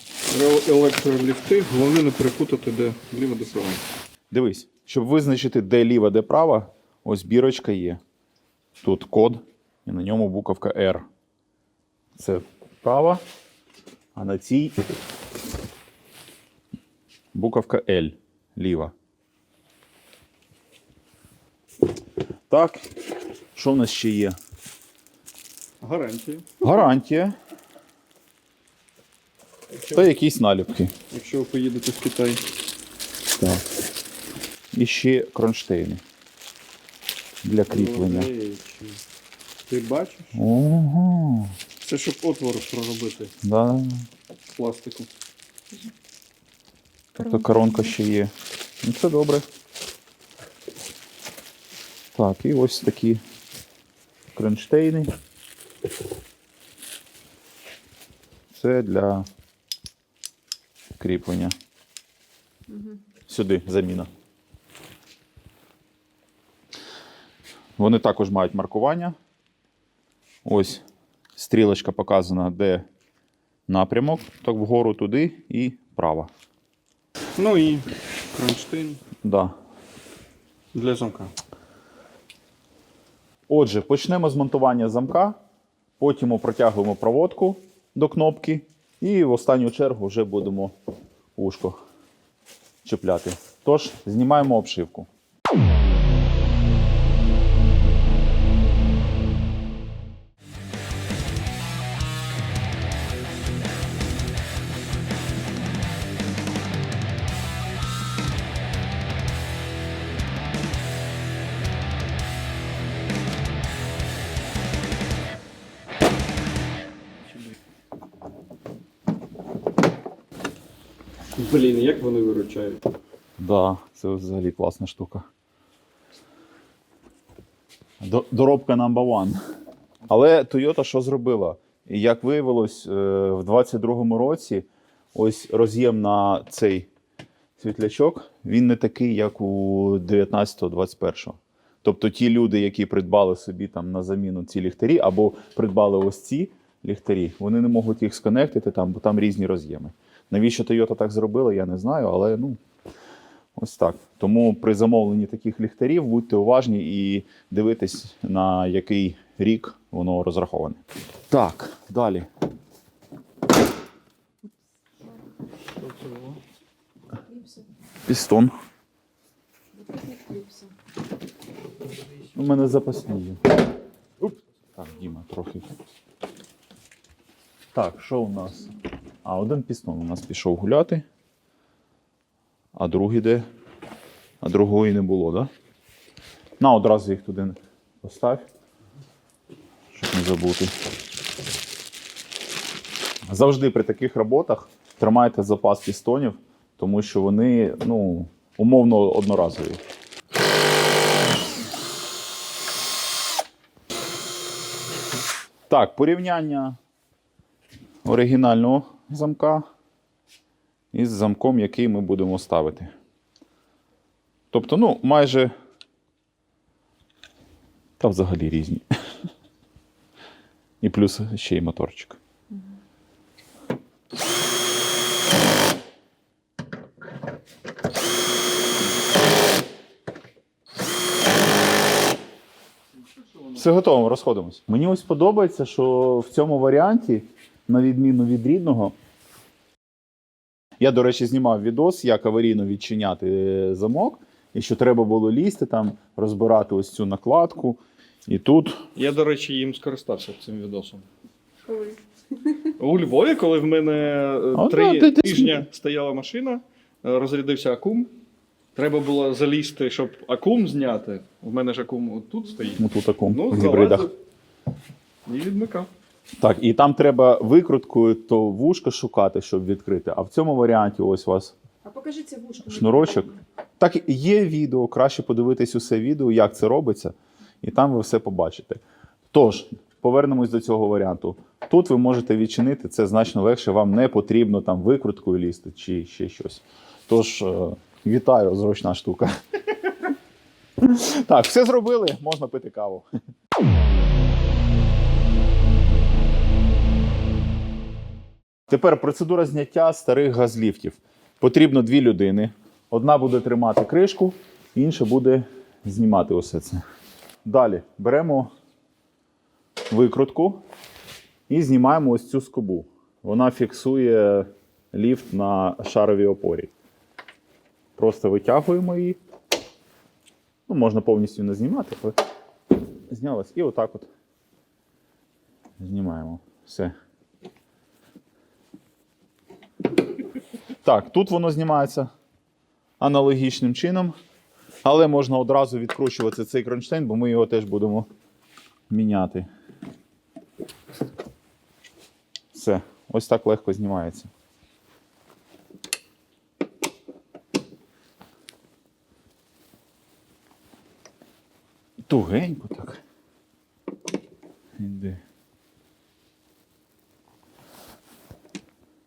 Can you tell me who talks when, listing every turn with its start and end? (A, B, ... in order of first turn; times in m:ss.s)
0:00.3-0:03.8 A
0:04.3-0:08.0 B
0:08.8-0:11.0 B
0:12.2-0:13.2 B
0:14.1-0:14.7 B
0:17.3-0:18.9 B
0:22.5-0:22.9 B
0:23.5-0:24.4 B
0:25.8-0:26.9 A
0:26.6-0:27.3 B
0:29.7-0:30.1 A
0:29.9-0:30.9 B
0:31.1-0:32.4 A
0:33.4-0:33.6 B
0:34.7-0:36.0 B
0:37.4-0:38.3 B
0:37.7-0:39.0 A
0:39.7-0:40.4 A
0:40.3-0:41.5 B
0:41.8-0:43.3 A
0:43.4-0:44.1 B
0:44.5-0:45.1 A
0:47.2-0:48.3 B
0:47.2-0:47.9 C
0:48.8-0:49.4 B
0:52.1-0:53.2 B
0:54.3-0:55.1 B
0:58.5-0:59.3 B
1:01.0-1:01.5 B
1:02.7-1:02.9 C
1:03.3-1:04.1 B
1:07.8-1:09.2 B
1:10.4-1:10.8 B
1:11.4-1:12.8 B
1:13.7-1:16.3 B
1:17.4-1:19.0 A
1:19.2-1:19.5 B
1:20.7-1:21.3 A
1:23.5-1:25.4 B
1:26.0-1:30.7 B
1:31.4-1:31.8 B
1:32.8-1:35.1 B
2:01.3-2:02.8 A
2:03.4-2:05.2 B
2:08.0-2:09.4 B
2:10.1-2:16.9 B
2:17.6-2:32.6 B
2:33.6-2:42.3 B
2:45.7-2:46.4 A
2:47.3-2:47.6 C
2:48.0-2:48.5 B
2:49.7-2:50.7 C
2:52.3-2:53.5 B
2:54.2-2:55.6 B
2:57.7-2:58.7 B
2:59.2-3:01.0 B
3:02.7-3:03.4 B
3:04.4-3:05.5 B
3:06.6-3:08.4 B
3:09.9-3:10.7 B
3:13.3-3:19.8 B
3:25.7-3:26.8 B
3:28.0-3:29.7 B
3:30.9-3:32.9 B
3:34.5-3:35.5 B
3:38.0-3:38.8 B
3:40.8-3:42.2 B
3:53.5-3:58.9 B
4:00.8-4:08.8 B
4:08.9-4:11.0 A
4:11.6-4:12.0 C
4:12.8-4:18.1 A
4:14.5-4:15.6 B
4:18.7-4:24.2 A
4:22.8-4:24.1 B
4:25.2-4:25.9 A
4:26.4-4:31.5 B
4:31.8-4:33.4 C
4:32.7-4:38.8 B
4:39.3-4:49.3 B
4:50.8-4:53.0 B
4:58.7-5:06.8 B
5:07.4-5:08.5 B
5:09.9-5:10.6 B
5:11.5-5:16.7 B
5:18.0-5:19.2 B
5:20.7-5:22.2 B
5:23.1-5:24.1 B
5:25.8-5:26.9 B
5:30.8-5:32.1 B
5:33.0-5:34.1 B
5:34.8-5:38.1 B
5:38.9-5:39.5 B
5:42.5-5:44.3 B
5:52.1-5:53.0 B
5:54.8-5:55.2 B